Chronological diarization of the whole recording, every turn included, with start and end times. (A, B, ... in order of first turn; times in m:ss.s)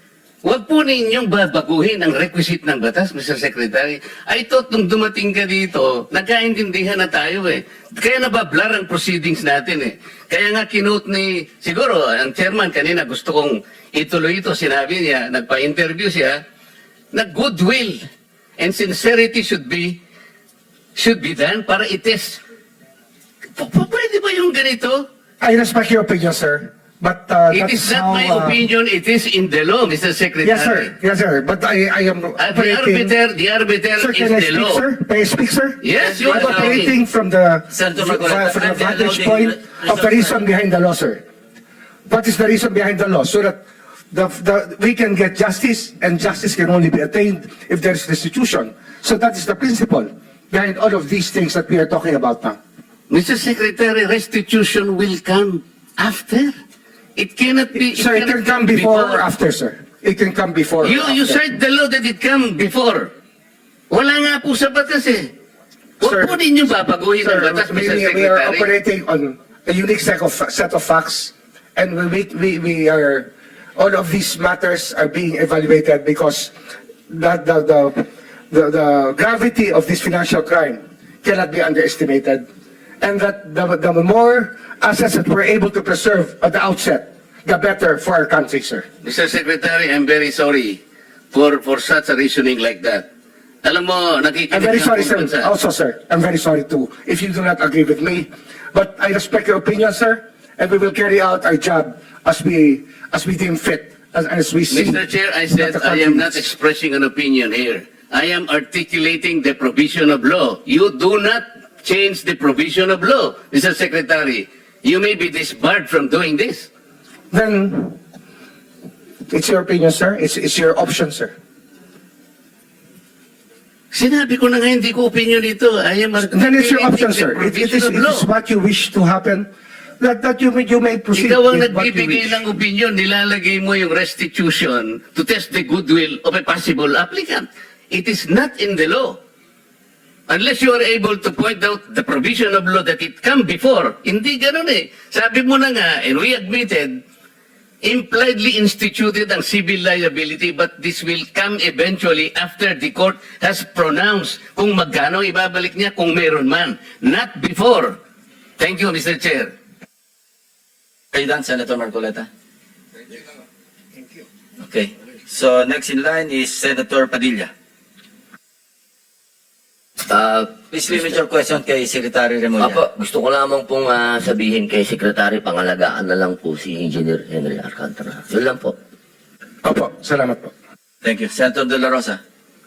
0:00.4-0:16.4 A
0:17.1-0:18.0 A
0:18.6-0:20.0 A
0:21.0-0:22.4 A
0:23.6-0:25.0 A
0:25.4-0:28.6 B
0:27.5-0:30.9 A
0:30.4-0:33.1 B
0:32.4-0:34.8 A
0:34.0-0:41.2 B
0:35.8-0:36.9 A
0:36.0-0:37.0 C
0:37.7-0:40.4 C
0:42.1-0:43.6 B
0:44.1-0:52.6 B
0:53.1-0:56.5 A
0:57.2-0:59.2 A
0:57.9-1:01.4 B
1:00.8-1:03.1 A
1:03.9-1:05.3 A
1:06.0-1:06.4 B
1:06.0-1:08.7 A
1:07.2-1:16.5 B
1:17.1-1:22.4 B
1:23.0-1:28.8 B
1:29.0-1:30.8 A
1:31.3-1:33.1 A
1:33.6-1:35.5 A
1:34.5-1:45.0 B
1:44.7-1:56.7 A
1:45.5-1:46.4 B
1:57.3-1:58.0 B
1:59.3-2:01.3 B
2:03.9-2:08.2 A
2:06.2-2:09.5 B
2:10.0-2:12.4 B
2:11.1-2:19.2 A
2:20.3-2:27.0 A
2:27.8-2:38.0 A
2:38.6-2:39.5 A
2:41.1-2:42.3 C
2:44.6-2:47.5 C
2:50.1-2:51.2 D
2:50.7-2:52.8 C
2:52.6-2:58.7 D
2:59.6-3:00.5 B
3:01.0-3:02.2 C